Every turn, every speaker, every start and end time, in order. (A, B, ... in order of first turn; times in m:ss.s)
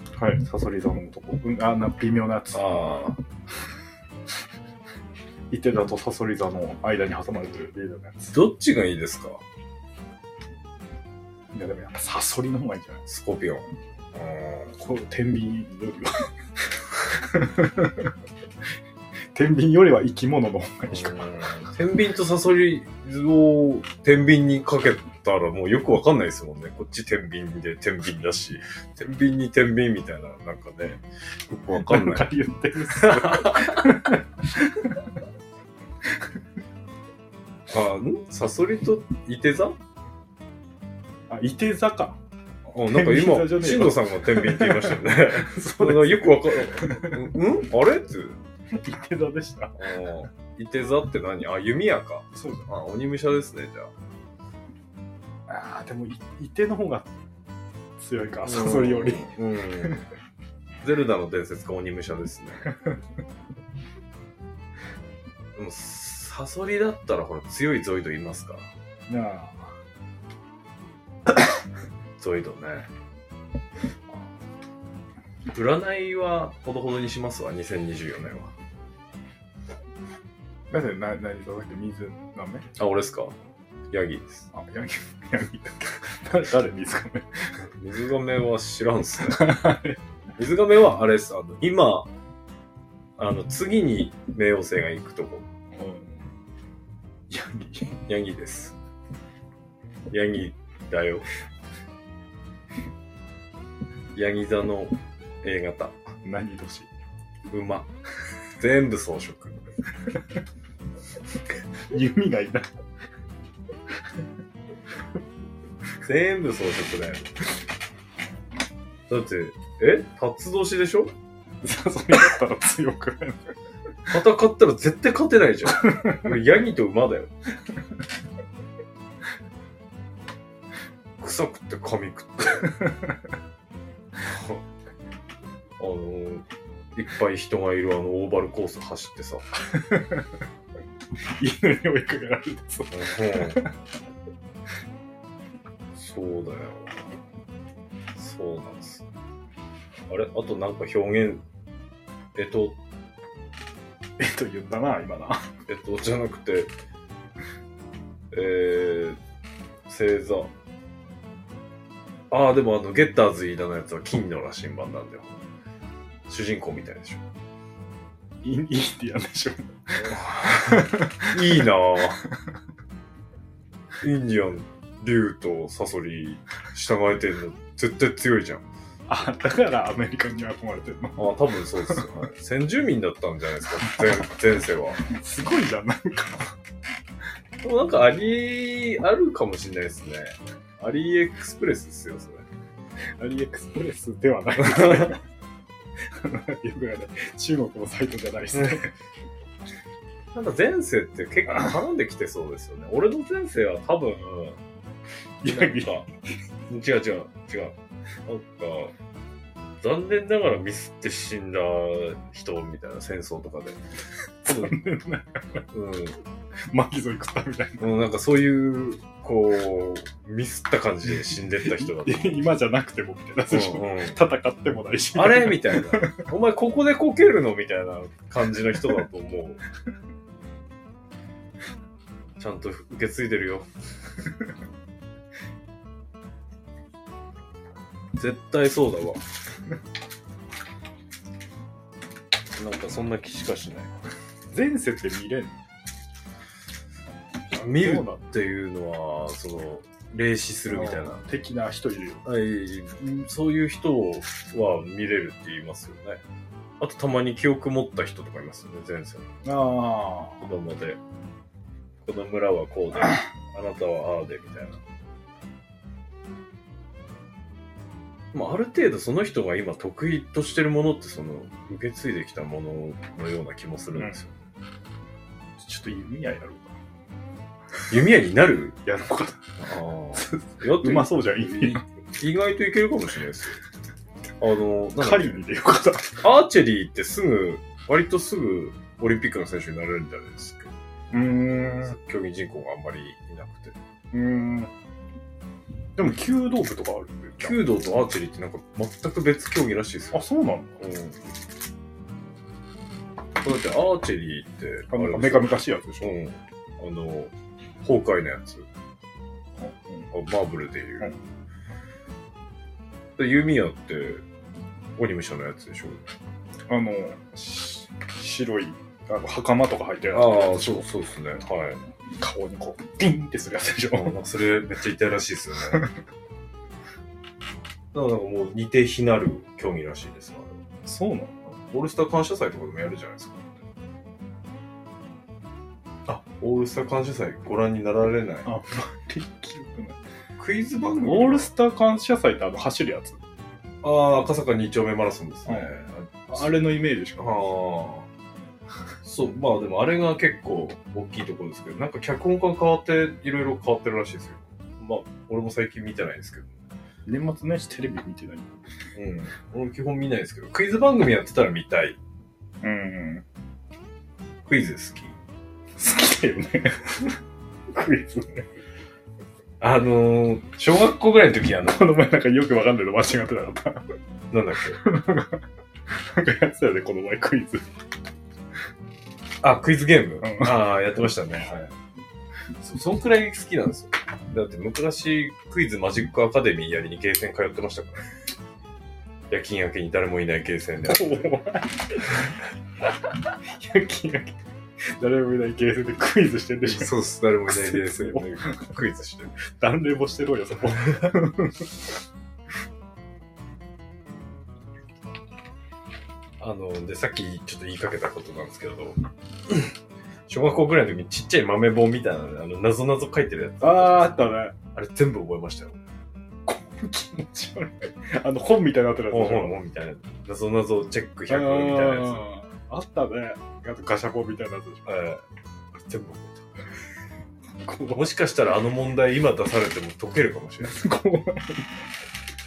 0:00.2-0:03.2 A
0:02.5-0:03.2 B
0:05.5-0:08.4 A
0:08.3-0:09.4 B
0:11.5-0:13.0 A
0:13.1-0:14.7 B
0:14.8-0:16.3 A
0:16.9-0:18.1 A
0:19.3-0:21.3 A
0:20.9-0:32.3 B
0:31.7-0:34.9 A
0:32.9-0:34.1 B
0:37.7-0:39.8 B
0:41.3-0:42.2 A
0:42.7-0:48.4 B
0:42.9-0:47.3 A
0:48.7-0:49.9 A
0:49.8-0:53.9 B
0:52.3-0:52.7 A
0:55.5-0:57.1 A
0:58.0-0:59.3 A
0:58.4-1:00.0 B
1:00.8-1:02.7 B
1:05.5-1:08.7 B
1:09.1-1:09.7 A
1:12.2-1:12.9 B
1:15.5-1:18.5 B
1:20.7-1:22.7 A
1:22.8-1:23.4 B
1:23.9-1:24.5 B
1:24.5-1:27.6 A
1:27.6-1:29.8 B
1:29.3-1:30.0 A
1:30.4-1:32.1 B
1:33.2-1:35.5 B
1:35.8-1:36.2 A
1:37.3-1:38.0 A
1:38.1-1:38.8 B
1:40.1-1:41.2 B
1:44.1-1:46.0 B
1:46.2-1:46.9 A
1:47.5-1:47.9 B
1:48.6-1:49.7 B
1:51.9-1:52.7 A
1:56.0-1:57.3 B
1:59.1-2:01.1 B
2:01.6-2:03.4 A
2:04.1-2:07.3 B
2:05.8-2:06.3 A
2:11.2-2:12.8 B
2:12.8-2:13.1 A
2:14.2-2:14.6 B
2:15.8-2:19.4 B
2:19.7-2:20.2 A
2:21.4-2:23.7 A
2:22.9-2:23.6 B
2:25.9-2:27.0 B
2:28.1-2:29.0 B
2:30.1-2:31.4 B
2:32.3-2:32.8 B
2:34.2-2:35.5 A
2:35.7-2:36.7 B
2:38.3-2:39.2 B
2:39.9-2:40.5 B
2:42.3-2:45.4 B
2:46.3-2:47.2 B
2:48.4-2:51.7 A
2:50.0-2:52.2 B
2:54.0-2:58.6 B
2:59.1-3:02.1 A
3:01.2-3:05.0 B
3:05.0-3:06.5 A
3:07.6-3:12.4 B
3:13.2-3:15.2 A
3:14.6-3:15.2 B
3:16.1-3:18.9 A
3:20.3-3:24.6 B
3:25.4-3:26.1 A
3:25.4-3:26.1 B
3:26.7-3:27.7 B
3:28.2-3:28.9 B
3:29.8-3:33.8 B
3:34.4-3:34.8 B
3:34.4-3:35.6 A
3:35.7-3:36.2 B
3:36.7-3:37.8 A
3:37.8-3:42.4 B
3:41.6-3:46.2 A
3:43.5-3:44.2 B
3:45.1-3:49.6 B
3:52.4-3:53.7 B
3:58.1-3:59.2 B
4:02.5-4:03.9 B
4:04.5-4:05.6 A
4:07.5-4:11.2 B
4:07.5-4:08.2 A
4:10.7-4:12.2 A
4:12.2-4:16.2 B
4:16.8-4:19.3 B
4:19.4-4:20.4 A
4:20.4-4:21.0 B
4:22.0-4:24.8 B
4:28.3-4:34.3 B
4:33.9-4:34.2 A
4:35.6-4:36.8 A
4:37.9-4:38.8 B
4:38.8-4:39.5 A
4:39.6-4:43.6 B
4:40.1-4:41.8 A
4:44.4-4:45.4 B
4:45.0-4:46.2 A
4:46.2-4:50.7 B
4:51.1-4:52.0 A
4:51.8-4:53.8 B
4:54.1-4:54.7 A
4:56.0-4:57.6 A
4:57.4-5:00.2 B
5:00.1-5:00.8 A
5:00.8-5:01.2 B
5:03.4-5:07.3 B
5:04.9-5:06.2 A
5:07.8-5:08.7 B
5:09.6-5:10.1 A
5:10.1-5:11.1 B
5:13.2-5:14.2 B
5:15.0-5:16.0 B
5:16.7-5:20.6 A
5:20.1-5:21.9 B
5:22.1-5:24.2 A
5:23.9-5:25.8 B
5:27.9-5:30.6 B
5:30.8-5:31.5 A
5:31.6-5:33.6 B
5:36.0-5:38.5 B
5:38.4-5:40.0 A
5:40.4-5:41.5 B
5:41.0-5:43.2 A
5:43.8-5:46.6 B
5:45.4-5:45.8 A
5:46.3-5:47.5 A
5:47.2-5:48.1 B
5:49.0-5:56.5 B
5:57.0-5:58.5 A
5:58.9-6:02.0 B
6:02.6-6:03.2 A
6:04.4-6:05.2 B
6:05.8-6:07.2 A
6:07.7-6:08.5 A
6:09.6-6:11.8 B
6:11.6-6:13.9 A
6:14.3-6:14.8 B
6:14.8-6:15.4 A
6:15.9-6:17.7 A
6:19.4-6:21.7 B
6:20.2-6:20.6 A
6:22.6-6:28.1 B
6:29.3-6:31.3 B
6:30.9-6:32.2 A
6:33.4-6:34.4 A
6:35.0-6:37.0 A
6:36.6-6:39.3 B
6:37.5-6:38.7 A
6:39.5-6:41.7 A
6:46.4-6:49.7 B
6:50.3-6:55.8 B
6:53.6-6:54.5 A
6:56.4-6:59.6 A
6:59.1-7:02.2 B
7:01.3-7:05.1 A
7:04.8-7:05.2 B
7:05.8-7:06.6 B
7:07.6-7:08.1 A
7:07.9-7:10.8 B
7:10.6-7:11.8 A